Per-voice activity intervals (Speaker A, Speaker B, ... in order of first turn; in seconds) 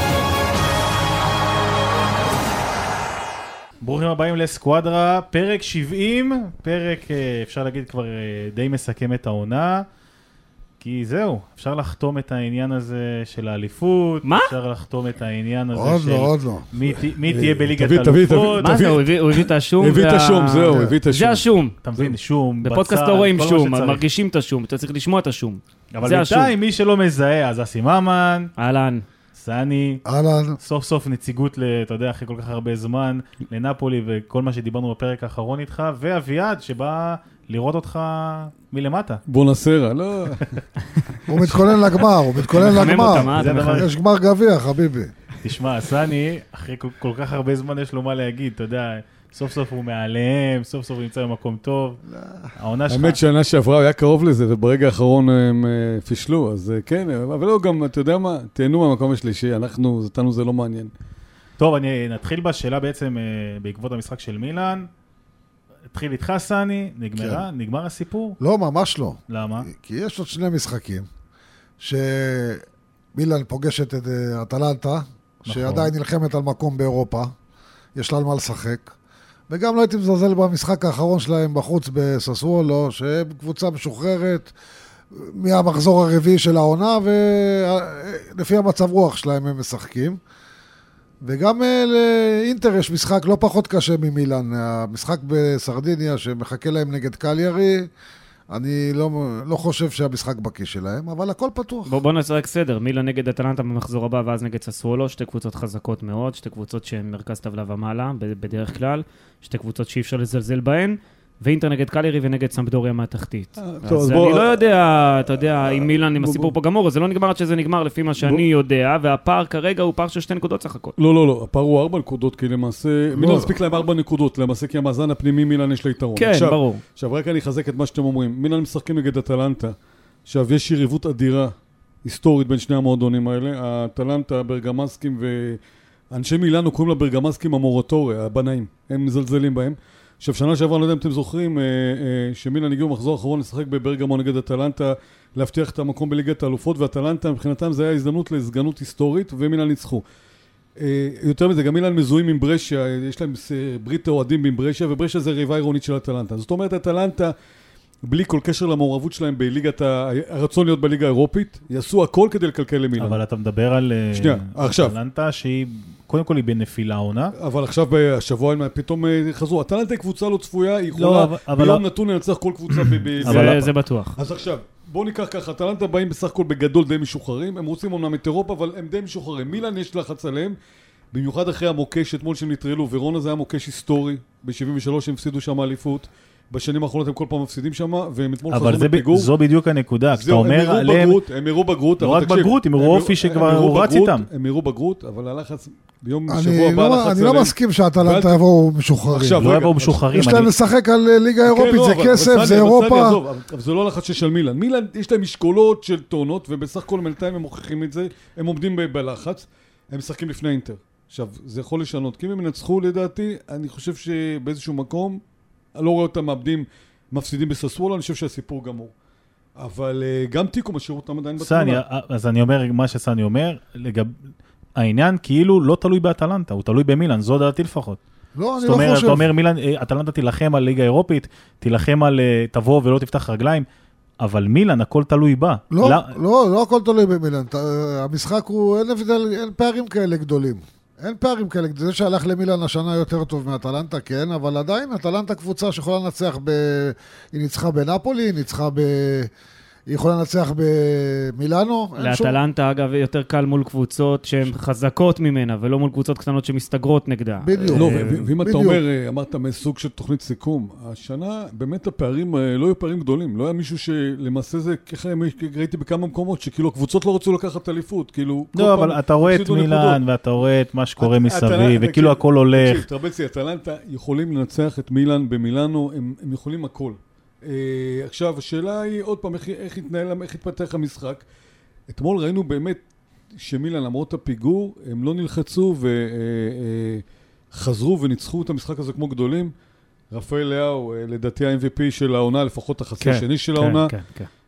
Speaker A: 3.8-9.9, 10.8-18.8, 21.8-24.0, 25.9-28.5, 29.3-30.0, 30.6-39.2, 42.5-43.9, 45.4-52.0, 52.5-53.2, 61.6-64.9, 65.9-68.4, 69.3-69.7, 75.5-75.9, 163.0-167.3, 170.9-171.8, 172.7-173.7, 188.5-191.2, 192.0-194.3, 199.4-200.5, 221.4-224.1, 224.8-228.0, 228.6-233.7, 234.2-236.1, 268.5-272.9
Speaker B: 14.2-14.5, 18.5-21.8, 22.6-26.5, 28.6-29.0, 42.5-43.9, 101.8-120.9, 126.2-126.8, 173.2-174.2, 252.0-258.2, 293.0-294.3
Speaker C: 15.7-17.0, 20.7-20.9, 30.0-30.6, 41.3-45.1, 52.1-52.5, 67.1-67.4, 68.4-71.1, 71.8-72.6, 73.1-77.3, 77.9-78.9, 79.5-84.5, 85.1-90.2, 91.2-97.9, 98.5-101.9, 123.1-123.5, 196.3-199.4, 200.1-203.2, 228.3-229.2, 235.7-249.3, 249.9-252.4, 257.4-258.8
Speaker D: 17.3-21.4, 39.3-40.6, 52.9-60.9, 113.6-114.7, 115.4-116.5, 121.0-129.7, 130.2-135.6, 136.1-150.0, 150.8-157.3, 158.1-163.2, 164.1-164.9, 167.3-173.6, 174.2-180.6, 181.1-189.3, 190.1-198.4, 199.0-200.3, 201.4-215.2, 215.8-218.9, 219.6-221.8, 257.7-270.0, 271.0-281.2, 281.9-282.8, 283.4-289.5, 290.1-293.9